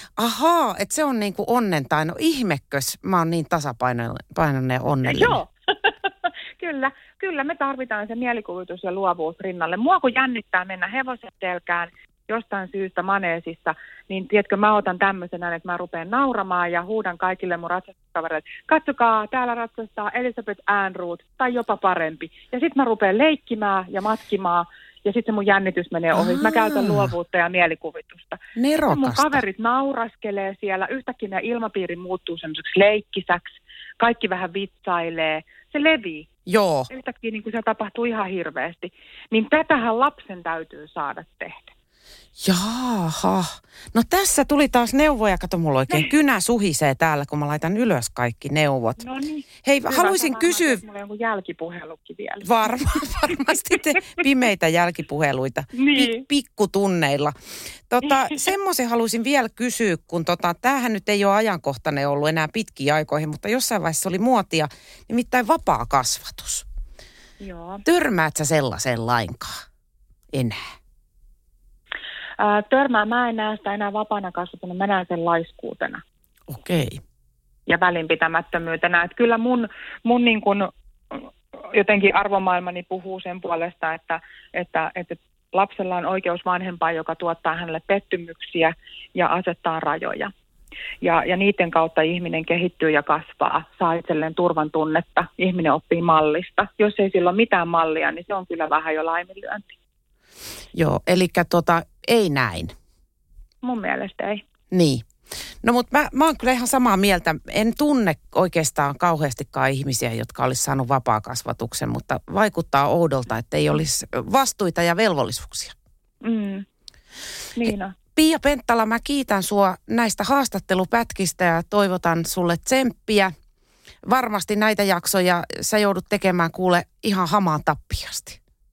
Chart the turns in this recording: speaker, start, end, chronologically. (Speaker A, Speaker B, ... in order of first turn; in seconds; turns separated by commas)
Speaker A: 0.2-5.4, Speaker B: 5.0-36.3, Speaker A: 26.1-27.1, Speaker A: 28.6-29.4, Speaker A: 36.5-36.9, Speaker B: 36.9-41.7, Speaker A: 42.4-49.0, Speaker B: 49.0-52.5, Speaker A: 49.6-50.8, Speaker A: 52.4-57.3, Speaker B: 55.7-56.2, Speaker A: 57.9-66.6, Speaker B: 67.4-67.8, Speaker A: 67.8-69.6, Speaker A: 70.3-70.6, Speaker B: 72.4-76.0, Speaker A: 76.5-77.0, Speaker B: 77.7-90.3, Speaker B: 91.0-99.7, Speaker A: 100.7-102.7, Speaker B: 103.6-104.4, Speaker A: 104.7-105.0, Speaker A: 105.6-115.7, Speaker B: 116.2-116.6, Speaker B: 117.5-118.0, Speaker A: 118.2-123.3, Speaker A: 124.0-128.4